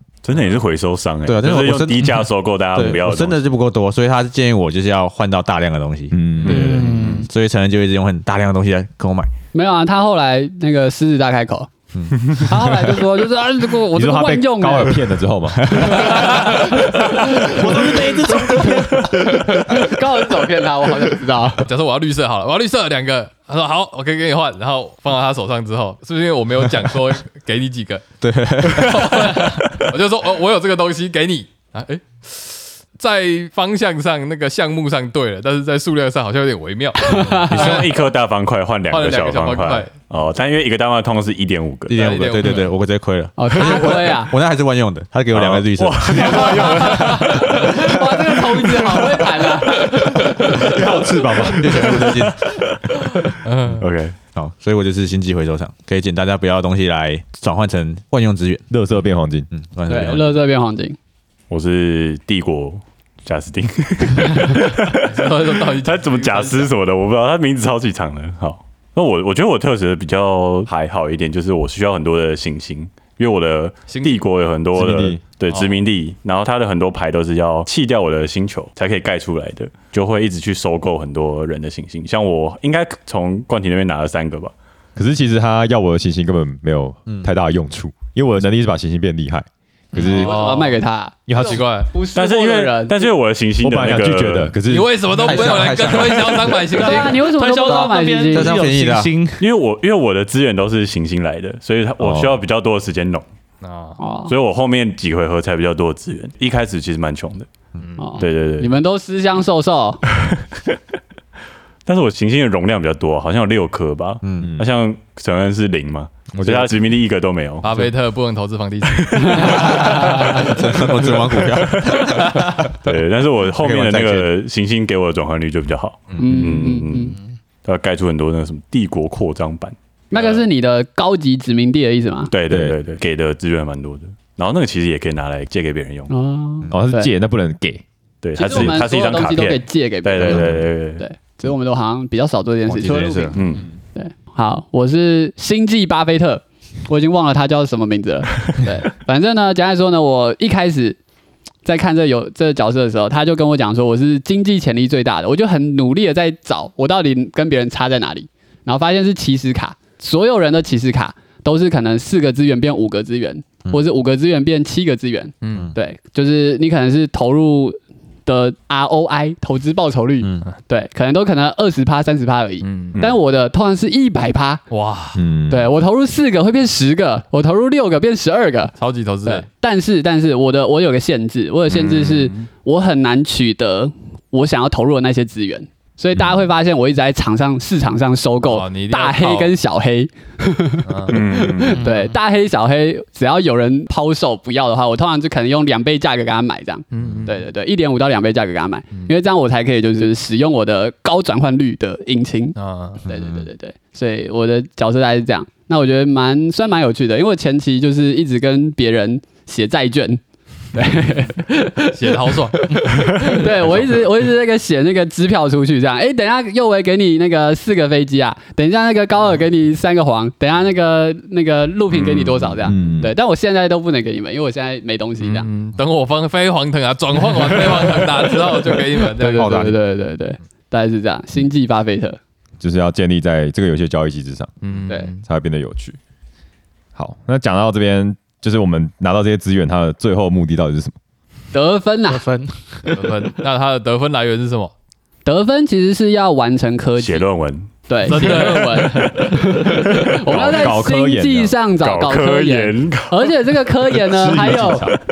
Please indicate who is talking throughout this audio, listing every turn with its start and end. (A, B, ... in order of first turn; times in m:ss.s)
0:00.2-0:03.4 A
0:01.2-0:09.3 B
0:06.1-0:07.0 C
0:06.4-0:07.2 A
0:09.5-0:11.7 D
0:11.9-0:12.4 B
0:12.3-0:15.0 D
0:13.9-0:19.8 C
0:15.6-0:15.9 B
0:15.7-0:18.8 D
0:17.4-0:19.0 B
0:19.3-0:21.7 D
0:21.6-0:28.0 E
0:28.2-0:29.4 B
0:28.6-0:37.8 E
0:37.0-0:37.8 D
0:37.4-0:42.0 A
0:38.9-0:39.9 E
0:41.9-0:47.1 B
0:41.9-0:42.7 E
0:43.4-0:44.3 D
0:45.3-0:47.6 A
0:46.1-0:50.3 D
0:50.2-0:52.3 C
0:51.4-0:52.5 B
0:53.4-0:53.8 E
0:53.8-0:54.2 A
0:54.3-0:58.7 B
0:58.7-0:59.5 C
0:59.5-1:00.4 B
0:59.9-1:01.0 D
1:01.5-1:24.5 A
1:05.0-1:06.7 E
1:13.9-1:14.2 E
1:14.7-1:15.2 C
1:15.5-1:15.8 E
1:25.0-1:30.3 C
1:30.0-1:33.1 D
1:30.0-1:30.8 E
1:31.3-1:31.6 C
1:31.3-1:31.9 E
1:32.1-1:34.6 A
1:33.6-1:34.9 C
1:34.6-1:37.2 E
1:35.2-1:36.7 B
1:36.7-1:39.4 F
1:36.8-1:38.6 D
1:37.7-1:39.2 B
1:39.4-1:43.2 A
1:42.0-1:42.3 C
1:43.6-1:44.0 E
1:44.0-1:44.3 D
1:44.2-1:47.5 A
1:47.8-1:48.1 E
1:48.0-1:50.0 D
1:48.2-1:48.7 A
1:51.8-1:57.7 A
1:54.2-1:54.6 B
1:56.3-1:56.8 B
1:57.6-2:00.6 E
1:59.1-1:59.6 A
1:59.2-1:59.8 D
1:59.5-2:02.7 B
2:01.9-2:02.5 E
2:02.8-2:10.4 A
2:03.5-2:04.3 B
2:06.2-2:06.4 B
2:06.2-2:07.1 D
2:10.1-2:12.3 D
2:12.3-2:16.1 A
2:12.5-2:12.8 C
2:16.1-2:17.1 D
2:16.7-2:17.8 C
2:18.2-2:21.0 A
2:18.4-2:23.4 D
2:20.2-2:20.6 B
2:22.7-2:23.6 B
2:23.3-2:23.6 A
2:23.9-2:31.0 D
2:31.6-2:54.6 D
2:45.4-2:45.7 E
2:50.2-2:50.5 B
2:52.6-2:53.0 E
2:54.7-2:55.2 E
2:55.1-2:55.7 C
2:55.5-3:30.2 D
2:58.8-2:59.4 E
3:01.7-3:02.5 A
3:08.5-3:09.6 E
3:10.8-3:11.2 E
3:11.1-3:11.9 A
3:16.9-3:17.4 E
3:22.6-3:23.0 E
3:23.0-3:23.5 B
3:30.7-3:45.5 D
3:31.9-3:33.5 E
3:42.6-3:43.1 C
3:45.2-3:49.6 E
3:49.1-3:52.2 D
3:49.4-3:49.8 B
3:52.6-3:54.5 C
3:54.6-3:55.2 E
3:55.2-3:56.0 C
3:56.9-4:00.9 C
4:01.5-4:02.3 D
4:02.1-4:03.0 F
4:02.9-4:04.7 E
4:05.2-4:07.3 D
4:07.0-4:08.5 A
4:07.9-4:14.9 D
4:08.0-4:09.3 E
4:10.1-4:11.6 C
4:11.8-4:13.5 A
4:14.0-4:15.0 C